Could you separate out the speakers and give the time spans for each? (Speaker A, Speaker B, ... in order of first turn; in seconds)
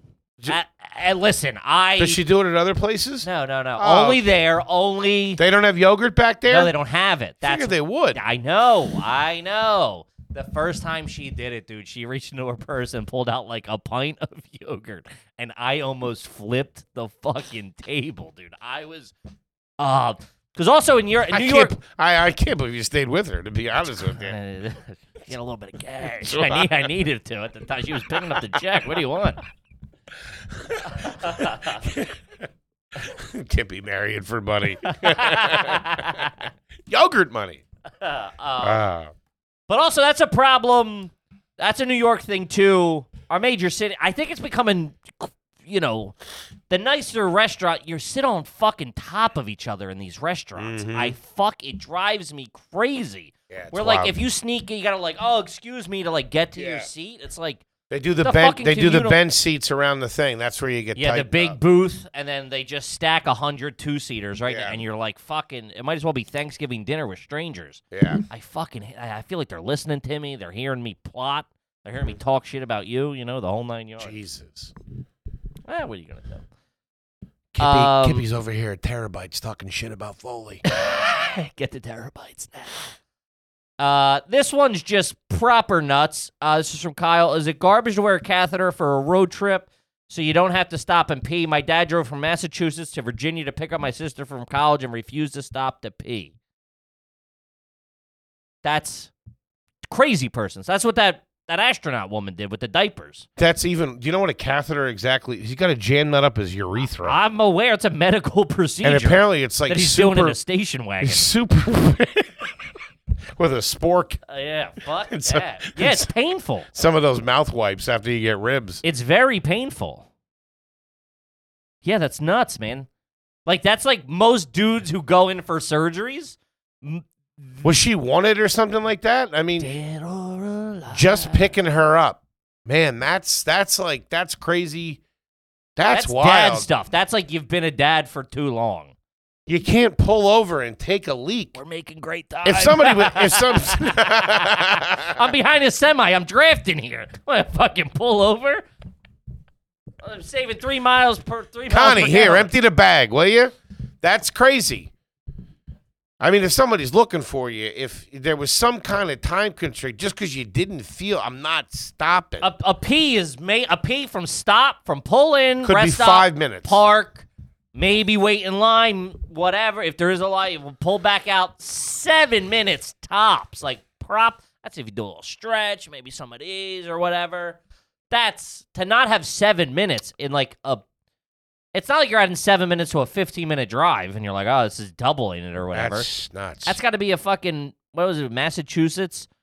Speaker A: 0.5-2.2, 3.2-5.4, 6.5-19.1, 19.8-21.8, 24.1-29.4, 30.9-31.8, 34.8-36.5, 38.0-38.8, 39.7-46.1, 46.7-57.6, 58.2-59.2, 61.0-74.1, 75.7-76.4, 77.6-78.2, 80.7-82.9, 83.8-96.3, 98.6-99.1, 99.9-103.3, 107.0-111.3, 114.3-116.7, 118.8-120.1, 121.8-122.9, 123.5-127.7, 129.6-131.5, 135.9-138.9, 141.5-148.6, 150.0-152.5, 162.4-177.6, 178.1-180.8, 181.7-186.1, 186.6-189.3
Speaker B: 2.0-3.3, 3.8-4.2, 5.4-6.7, 7.4-8.2, 21.3-24.4, 26.2-26.8, 30.5-32.2, 33.0-36.3, 36.9-37.6, 38.6-39.1, 50.5-51.1, 53.5-54.1, 56.5-56.9, 57.9-61.6, 64.5-64.8, 67.9-68.2, 74.0-74.7, 77.5-80.6, 103.4-107.1, 108.8-110.4, 111.0-112.7, 113.3-114.2, 115.1-116.1, 116.7-118.8, 127.6-129.7, 130.9-135.0, 135.8-136.7, 139.5-141.6, 142.4-145.2, 151.7-154.9, 156.2-162.5, 165.6-166.8, 185.7-186.8